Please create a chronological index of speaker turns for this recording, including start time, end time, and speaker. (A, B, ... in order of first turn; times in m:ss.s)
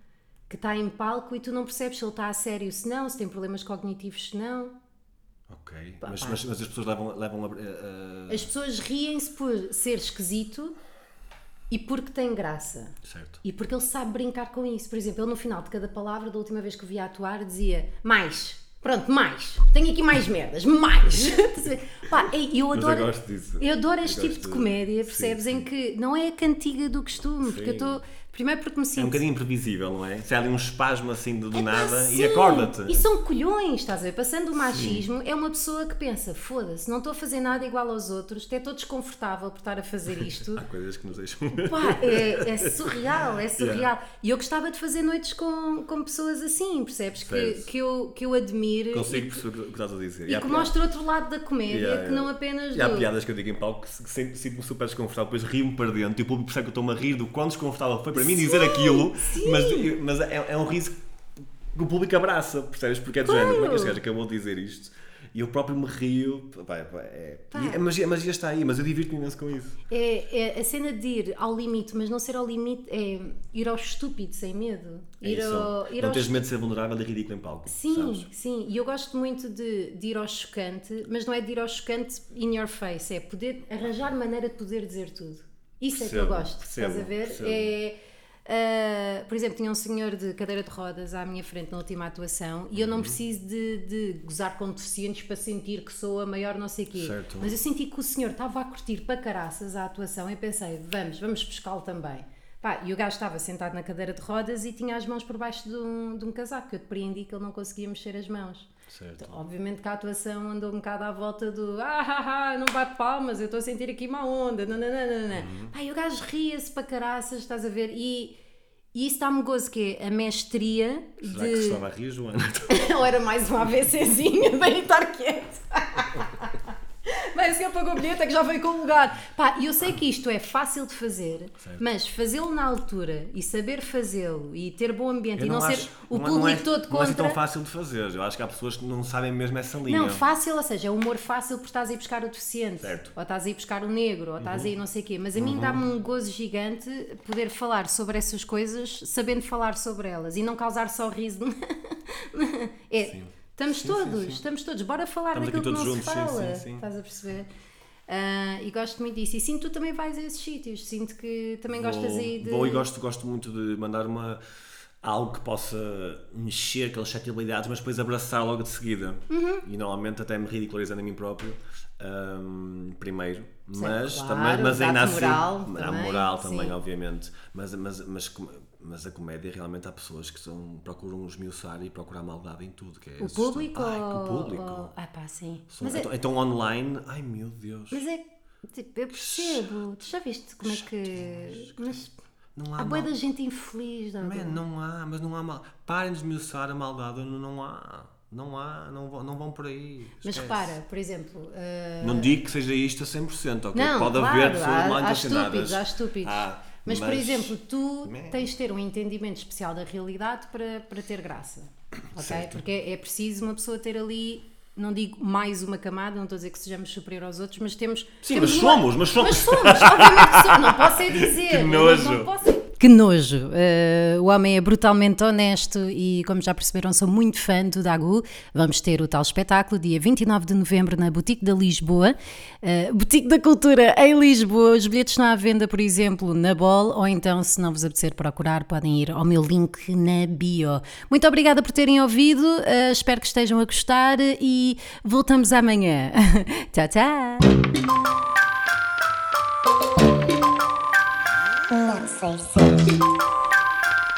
0:00.5-0:04.7 A
0:05.5-0:08.5 B
0:06.0-0:06.4 A
0:08.3-0:10.8 A
0:11.7-0:29.2 A
0:13.0-0:13.4 B
0:22.7-0:25.6 B
0:27.4-0:28.0 B
0:29.0-0:33.0 B
0:31.5-0:40.6 A
0:34.7-0:35.0 B
0:40.5-0:43.0 B
0:41.5-0:49.4 A
0:43.6-0:43.9 B
0:47.2-0:47.7 B
0:48.9-0:50.8 B
0:50.2-0:53.1 A
0:51.7-1:01.0 B
0:58.1-0:59.9 A
1:01.7-1:09.8 B
1:03.2-1:04.0 A
1:07.5-1:07.8 A
1:09.9-1:16.4 A
1:15.2-1:18.3 B
1:17.7-1:58.4 A
1:25.9-1:27.7 B
1:32.7-1:33.2 B
1:36.9-1:37.6 B
1:48.9-1:49.3 B
1:55.3-1:55.7 B
1:58.9-2:01.8 A
2:01.2-2:03.0 B
2:02.7-2:17.4 A
2:15.4-2:20.2 B
2:19.9-2:37.5 A
2:22.8-2:23.1 B
2:24.4-2:24.7 B
2:25.3-2:25.8 B
2:33.1-2:34.4 B
2:35.3-2:36.8 B
2:38.1-2:42.8 A
2:41.7-2:44.4 B
2:45.0-3:04.9 B
2:49.3-2:49.6 A
2:53.7-2:56.8 A
3:03.2-3:06.1 A
3:05.7-3:08.0 B
3:07.9-3:12.1 A
3:09.1-3:09.8 B
3:10.6-3:12.0 B
3:12.6-3:13.1 B
3:12.8-3:14.6 A
3:14.2-3:20.8 B
3:20.2-3:22.4 A
3:22.0-3:28.5 B
3:23.7-4:07.5 A
3:32.2-3:32.6 B
3:38.2-3:42.3 B
4:11.8-4:12.8 A